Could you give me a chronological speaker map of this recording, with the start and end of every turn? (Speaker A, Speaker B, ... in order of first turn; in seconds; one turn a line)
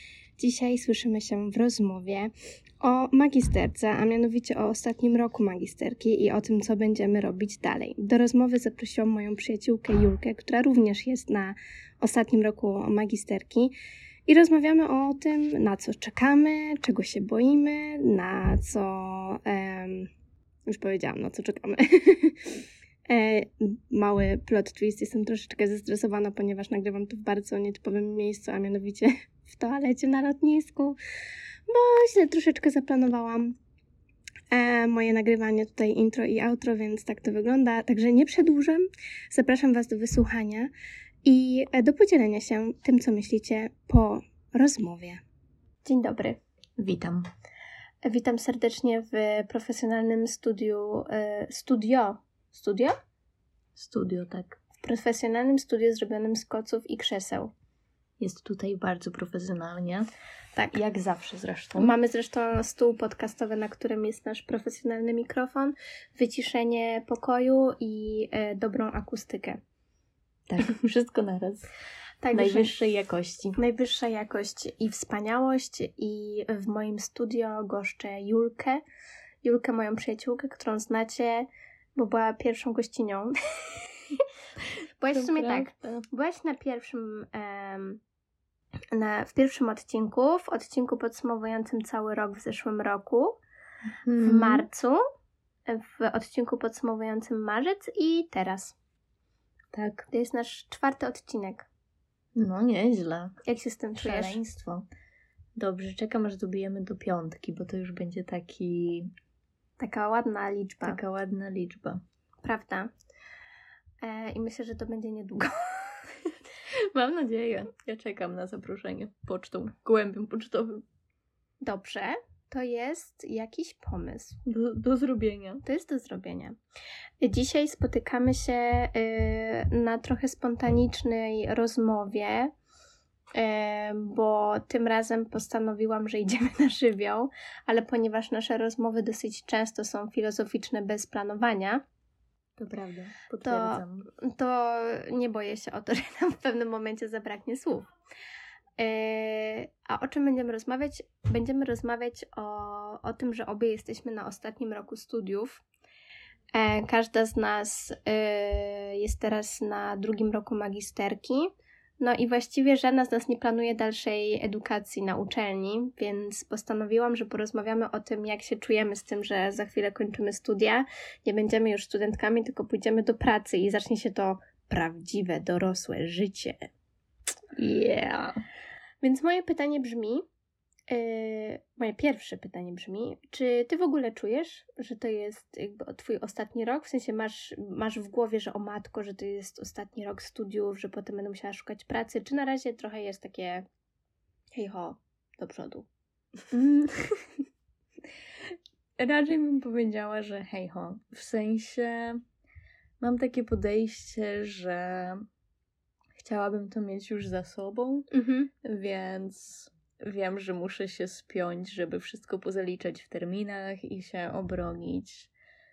Speaker A: 0.4-13.8
Speaker A: 14.3-20.1
Speaker A: 20.7-22.6
Speaker A: 23.1-31.0
Speaker A: 31.7-33.6
Speaker A: 34.5-40.7
Speaker A: 41.2-45.2
Speaker A: 45.8-46.4
Speaker B: 46.8-47.3
Speaker A: 48.0-53.0
Speaker B: 53.8-54.6
Speaker A: 54.8-57.5
Speaker B: 58.2-60.1
Speaker B: 60.7-61.9
Speaker A: 61.8-69.6
Speaker B: 70.5-71.7
Speaker A: 72.2-72.7
Speaker B: 72.3-73.6
Speaker A: 73.6-78.8
Speaker A: 79.4-84.2
Speaker A: 85.0-88.0
Speaker B: 85.1-86.1
Speaker A: 88.9-93.4
Speaker B: 94.0-94.7
Speaker A: 94.2-95.0
Speaker A: 95.7-98.8
Speaker B: 99.7-100.1
Speaker A: 100.1-101.7
Speaker B: 102.3-103.4
Speaker A: 103.5-104.4
Speaker B: 104.0-104.9
Speaker B: 105.6-109.1
Speaker A: 109.8-111.0
Speaker B: 110.8-112.0
Speaker A: 112.4-112.9
Speaker A: 114.0-116.0
Speaker B: 116.7-120.8
Speaker A: 121.6-124.4
Speaker B: 124.5-125.6
Speaker A: 125.6-126.5
Speaker A: 127.2-132.5
Speaker A: 133.4-141.8
Speaker B: 142.6-144.1
Speaker A: 143.4-147.9
Speaker A: 148.8-155.6
Speaker A: 156.5-161.5
Speaker A: 162.0-176.7
Speaker B: 177.6-178.4
Speaker A: 179.0-180.2
Speaker A: 180.9-193.7
Speaker A: 194.6-195.9
Speaker B: 196.5-197.2
Speaker B: 198.4-202.2
Speaker B: 203.0-205.2
Speaker B: 206.2-208.1
Speaker A: 208.1-208.5
Speaker B: 208.6-215.3